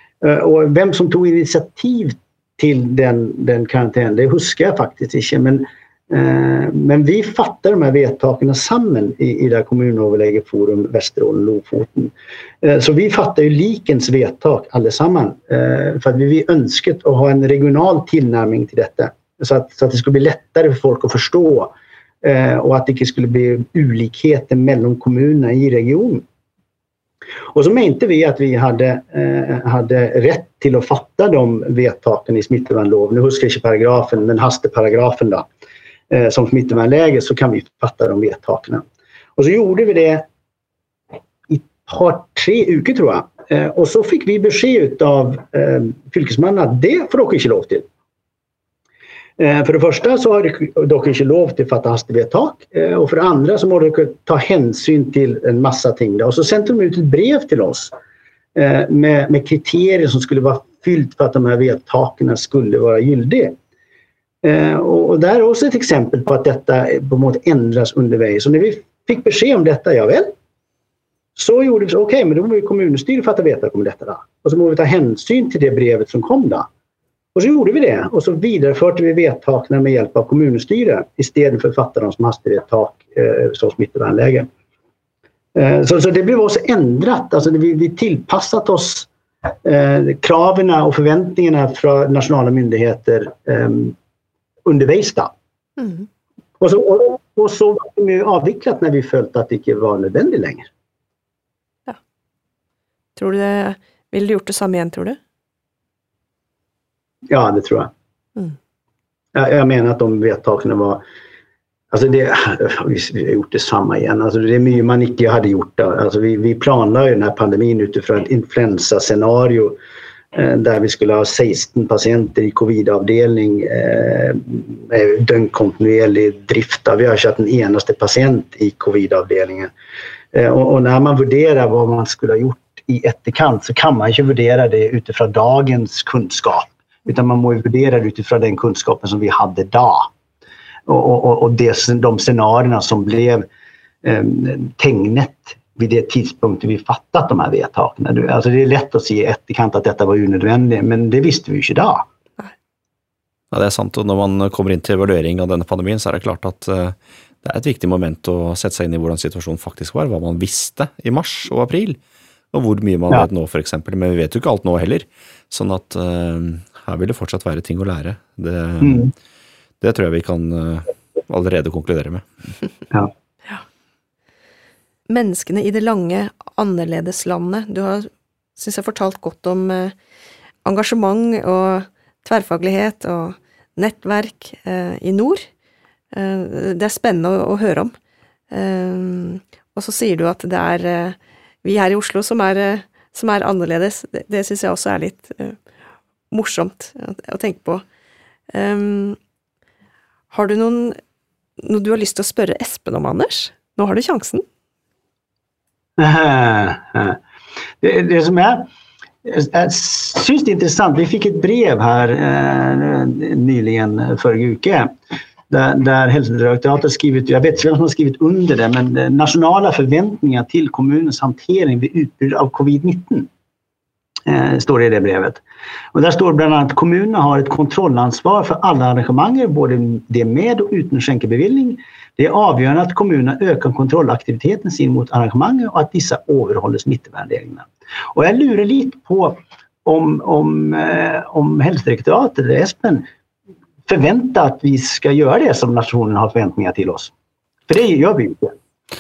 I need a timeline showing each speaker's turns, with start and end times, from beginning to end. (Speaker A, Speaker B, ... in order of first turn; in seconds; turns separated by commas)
Speaker A: 0.2-26.2, Speaker A: 27.5-35.5, Speaker A: 36.1-38.8, Speaker A: 39.4-40.2, Speaker A: 41.5-47.9, Speaker A: 49.4-57.9, Speaker A: 58.5-63.5, Speaker A: 64.4-70.3, Speaker A: 71.3-76.7, Speaker A: 77.3-84.5, Speaker A: 85.5-89.1, Speaker A: 89.6-94.0, Speaker A: 94.6-95.3, Speaker B: 95.8-96.0, Speaker A: 96.6-100.7, Speaker B: 103.2-105.2, Speaker A: 107.3-107.9, Speaker A: 109.3-111.0, Speaker A: 111.9-119.8, Speaker A: 120.3-129.7, Speaker A: 130.3-140.1, Speaker A: 140.9-143.4, Speaker A: 144.0-152.1, Speaker C: 153.5-162.0, Speaker C: 162.5-169.1, Speaker A: 168.8-169.1, Speaker C: 169.8-172.3, Speaker B: 175.1-179.9, Speaker B: 180.6-185.4, Speaker B: 186.1-187.9, Speaker B: 188.5-195.6, Speaker B: 196.3-197.8, Speaker B: 198.5-199.2, Speaker B: 200.3-201.0, Speaker B: 201.6-204.4, Speaker A: 206.0-207.2, Speaker A: 207.8-208.7, Speaker A: 209.2-214.9, Speaker A: 215.5-223.3, Speaker A: 224.2-225.4, Speaker A: 225.9-243.1, Speaker A: 243.9-247.1, Speaker A: 247.7-248.5